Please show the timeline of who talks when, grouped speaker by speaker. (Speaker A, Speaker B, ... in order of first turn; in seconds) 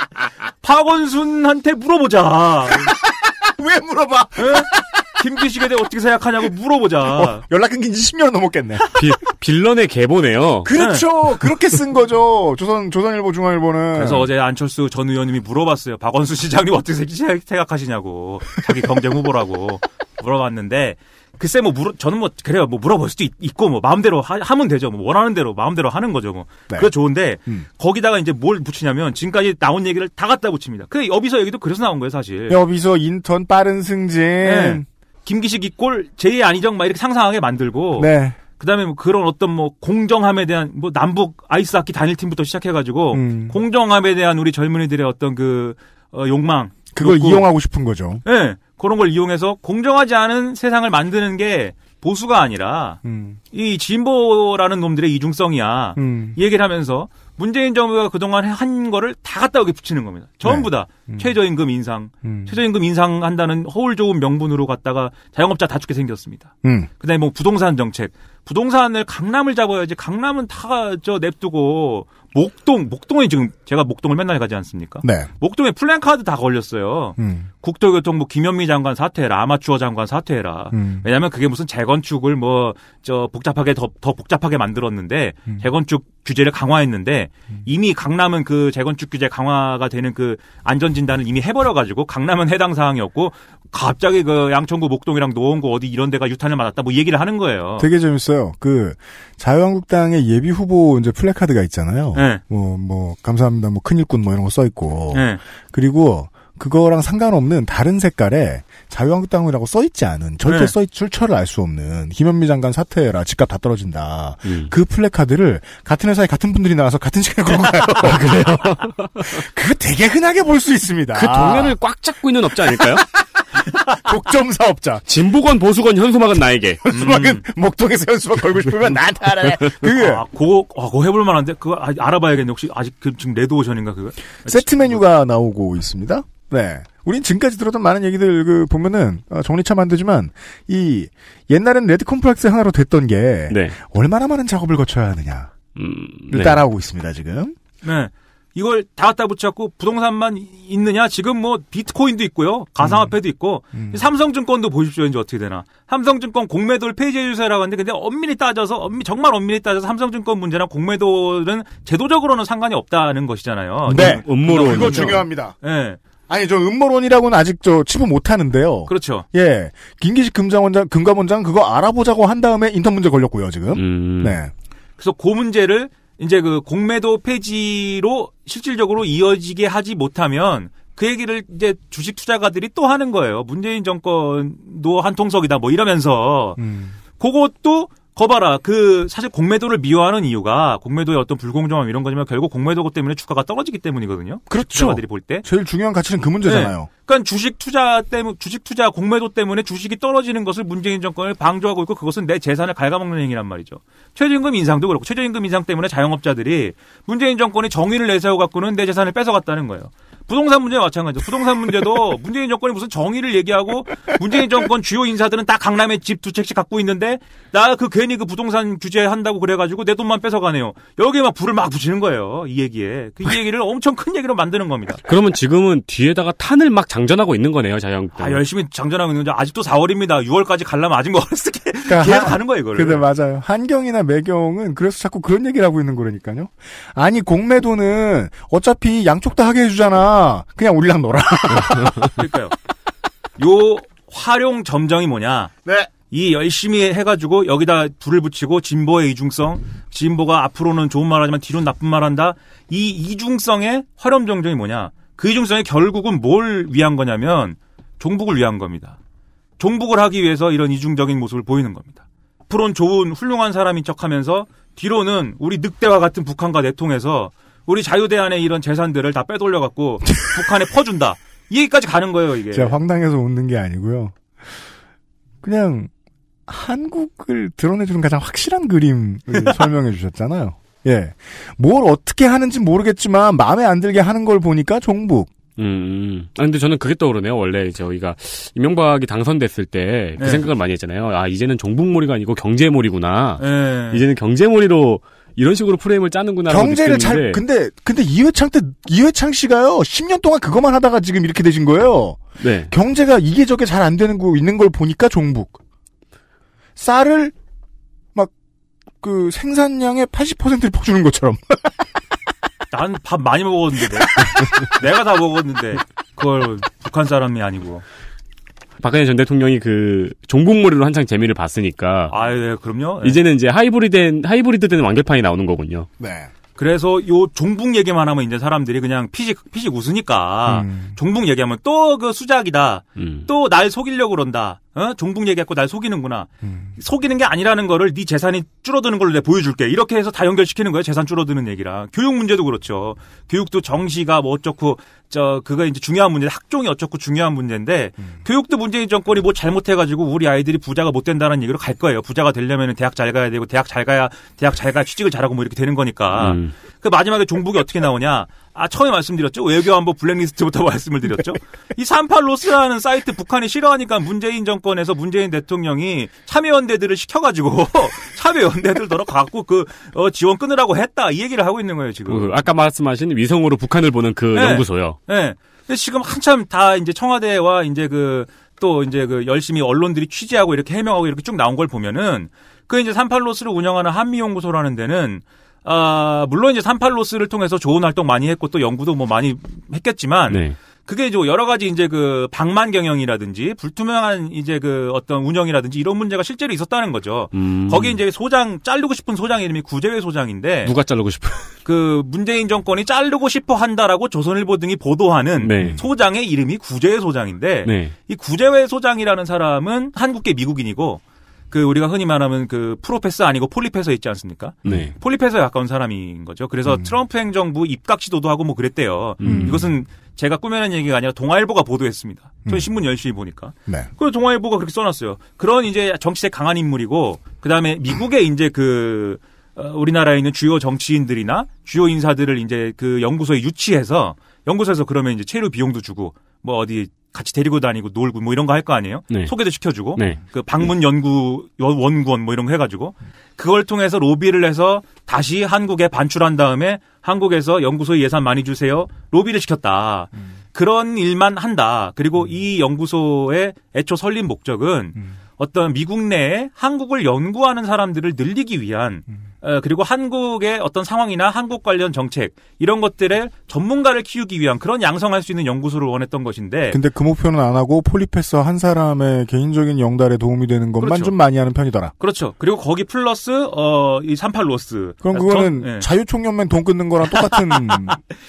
Speaker A: 0.6-2.9, 4.4-7.4, 10.7-11.1, 13.9-32.6, 34.4-47.5, 48.2-53.0, 53.5-97.9, 102.1-102.4, 105.1-105.4, 110.4-110.7, 126.9-127.4, 129.8-135.0, 147.8-166.0, 168.9-169.2, 175.0-186.6, 187.2-195.4, 196.4-225.0, 228.2-233.1, 242.2-242.6, 243.4-245.5, 246.1-259.0, 259.6-272.7, 290.2-290.5, 293.4-294.0, 312.7-317.8, 322.1-323.2, 326.6-372.3, 374.3-400.7, 401.6-466.8, 470.8-471.1, 472.0-475.9, 477.1-478.0
Speaker B: 2.8-5.0, 7.0-8.8, 10.6-14.2, 32.5-34.9, 38.0-38.4, 43.1-43.6, 46.9-48.2, 53.0-53.4, 56.0-56.4, 60.4-61.3, 62.2-62.6, 66.6-66.9, 75.0-75.3, 77.2-77.5, 80.7-81.0, 97.8-118.4, 119.2-121.8, 124.0-125.1, 126.9-130.2, 134.4-145.6, 146.3-147.5, 152.8-153.1, 153.7-154.0, 163.9-165.6, 166.3-174.5, 186.6-187.0, 194.5-196.9, 231.9-242.1, 245.6-245.9, 272.5-274.6, 275.4-275.9, 276.5-285.3, 296.5-305.6, 306.8-307.3, 309.0-311.8, 326.0-326.3, 330.5-330.9, 336.4-336.7, 419.2-419.7, 466.7-471.9, 475.0-478.0
Speaker C: 8.9-10.7, 114.4-114.7, 118.0-119.4, 121.1-123.0, 125.1-127.1, 143.5-143.8, 145.7-146.6, 163.9-165.2, 173.7-174.4, 225.1-228.4, 285.6-297.4, 302.4-302.7, 318.8-322.2, 323.0-325.9, 333.0-333.3, 356.1-356.5, 372.1-375.0, 390.3-390.6, 397.3-398.0, 400.6-401.5, 405.4-405.8, 407.6-407.9, 414.6-414.9, 419.2-419.7, 439.9-440.2